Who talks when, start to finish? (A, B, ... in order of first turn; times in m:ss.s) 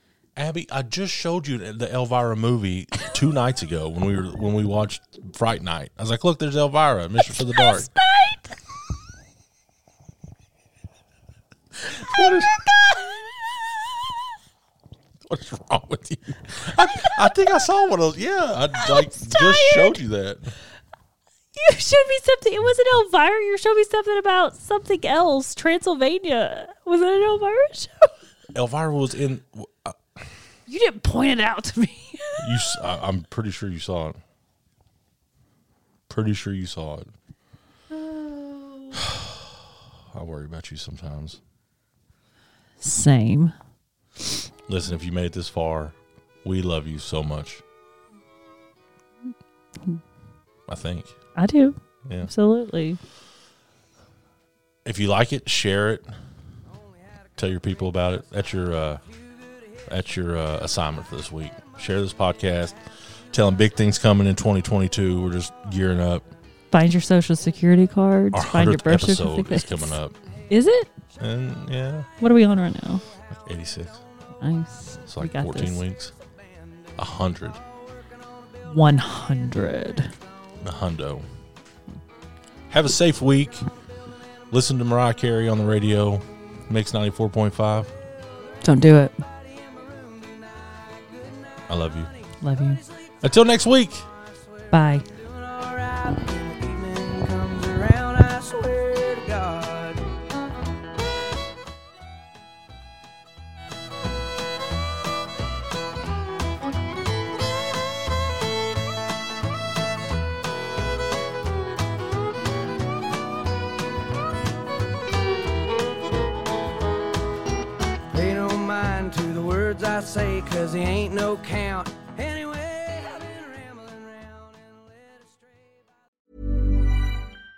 0:00.4-0:07.9 A
0:07.3-0:08.4 B
0:11.9-0:13.3 B
0:11.9-0:12.6 A
0:15.3-0:20.6 A
0:18.8-0:20.0 B
0:21.6-0:28.1 B
0:28.5-0:30.0 A
0:30.7-0:32.8 B
0:32.4-0:34.2 A
0:36.1-0:37.1 A
0:37.9-0:39.0 B
0:39.0-0:39.5 A
0:40.1-0:41.4 A
0:42.8-0:43.5 B
0:44.7-0:47.6 A
0:50.7-0:51.2 A
0:51.4-0:53.0 B
0:54.8-0:56.1 A
0:57.4-0:59.0 A
0:59.9-1:02.8 A
1:03.3-1:06.3 A
1:06.7-1:10.0 B
1:08.3-1:10.2 A
1:10.5-1:10.9 B
1:11.2-1:12.1 A
1:12.2-1:13.0 B
1:13.3-1:14.0 A
1:14.4-1:15.8 B
1:15.1-1:16.1 A
1:17.0-1:17.6 A
1:18.7-1:20.1 B
1:20.6-1:21.3 A
1:22.7-1:23.7 A
1:24.5-1:27.9 A
1:28.6-1:29.2 B
1:29.5-1:31.6 C
1:31.7-1:32.1 A
1:32.4-1:32.8 B
1:33.2-1:34.1 A
1:34.7-1:35.1 B
1:35.1-1:40.1 C
1:58.1-2:05.8 C